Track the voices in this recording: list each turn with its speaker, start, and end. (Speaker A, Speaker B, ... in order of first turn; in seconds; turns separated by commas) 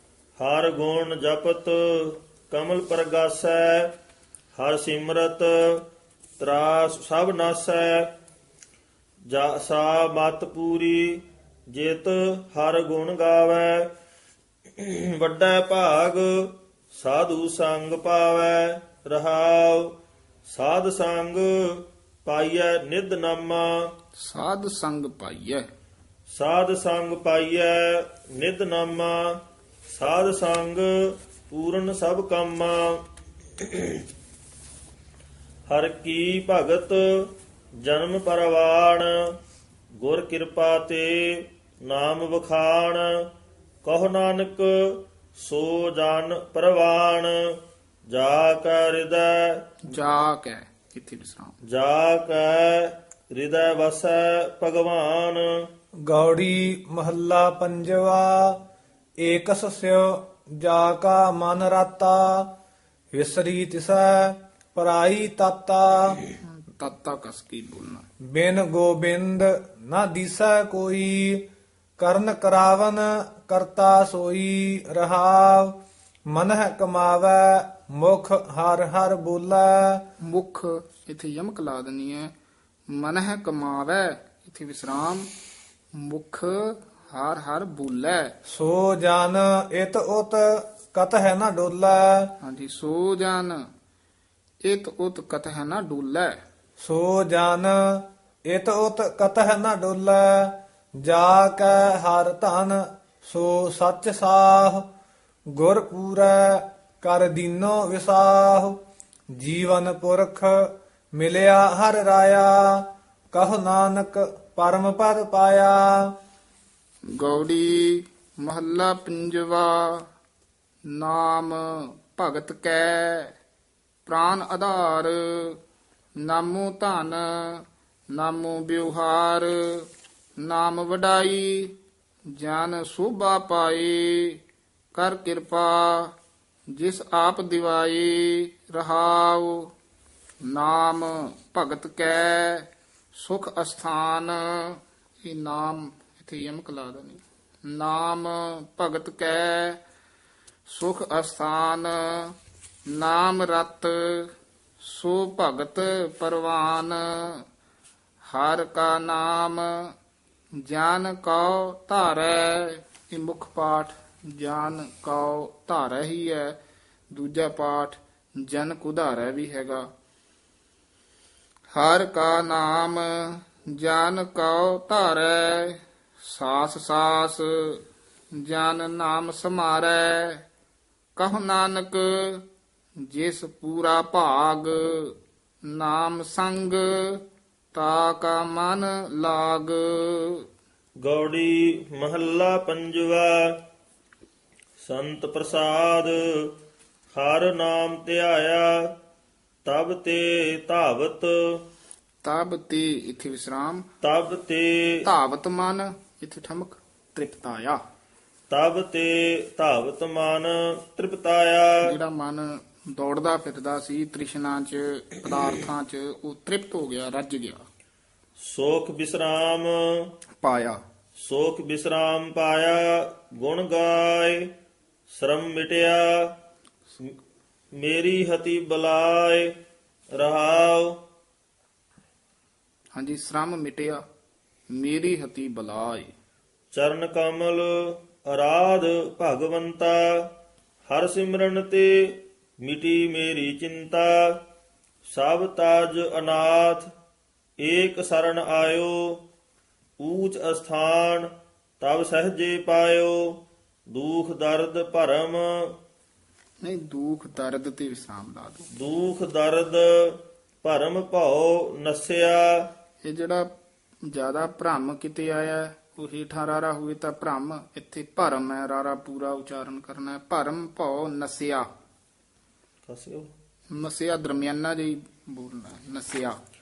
Speaker A: 0.4-3.9, Speaker A: 4.5-5.8, Speaker A: 6.4-8.1, Speaker A: 9.3-13.9, Speaker A: 14.8-19.9, Speaker A: 20.5-23.7, Speaker B: 24.2-25.6, Speaker A: 26.3-29.4, Speaker A: 29.9-33.0, Speaker A: 33.6-34.0, Speaker A: 35.7-39.3, Speaker A: 40.0-43.2, Speaker A: 43.8-47.5, Speaker A: 48.1-49.6, Speaker B: 49.9-51.5, Speaker A: 51.7-55.5, Speaker C: 56.0-58.6, Speaker C: 59.2-62.5, Speaker C: 63.1-66.2, Speaker B: 66.7-68.0, Speaker C: 68.3-71.5, Speaker C: 72.0-75.8, Speaker C: 76.3-80.0, Speaker B: 80.2-82.3, Speaker B: 82.9-85.3, Speaker B: 86.0-88.3, Speaker C: 88.5-92.3, Speaker B: 92.4-93.6, Speaker B: 94.6-96.4, Speaker C: 96.8-104.8, Speaker C: 105.5-108.8, Speaker C: 109.3-116.1, Speaker B: 117.1-120.1, Speaker B: 120.9-123.3, Speaker B: 124.0-125.6, Speaker B: 126.2-129.9, Speaker B: 130.4-131.7, Speaker B: 132.3-134.4, Speaker B: 134.9-136.1, Speaker B: 136.7-139.7, Speaker B: 140.4-149.8, Speaker B: 150.7-152.3, Speaker B: 152.9-157.4, Speaker B: 158.2-159.9, Speaker B: 160.6-166.6, Speaker B: 167.1-169.9, Speaker B: 171.7-177.8, Speaker B: 178.3-180.4, Speaker B: 181.2-182.4, Speaker B: 183.0-185.1, Speaker B: 185.7-187.2, Speaker B: 187.7-190.4, Speaker A: 191.0-193.5, Speaker A: 194.8-196.5, Speaker A: 197.1-198.9, Speaker A: 199.6-201.6, Speaker B: 202.2-203.8, Speaker A: 204.0-205.0, Speaker B: 205.0-207.8, Speaker A: 208.5-211.9, Speaker B: 211.8-217.6, Speaker A: 218.4-220.1, Speaker B: 220.4-220.8, Speaker A: 221.2-224.5, Speaker A: 225.1-226.3, Speaker A: 227.8-229.5, Speaker A: 230.2-230.9, Speaker B: 232.9-234.0, Speaker B: 234.7-236.1, Speaker A: 236.7-240.3, Speaker A: 240.8-244.4, Speaker A: 245.1-246.9, Speaker A: 247.6-249.2, Speaker A: 250.0-251.3, Speaker A: 251.8-253.4, Speaker A: 253.9-255.7, Speaker B: 256.6-258.7, Speaker A: 258.7-262.7, Speaker B: 263.0-263.5, Speaker B: 264.0-271.6, Speaker A: 272.9-273.3, Speaker B: 273.7-276.4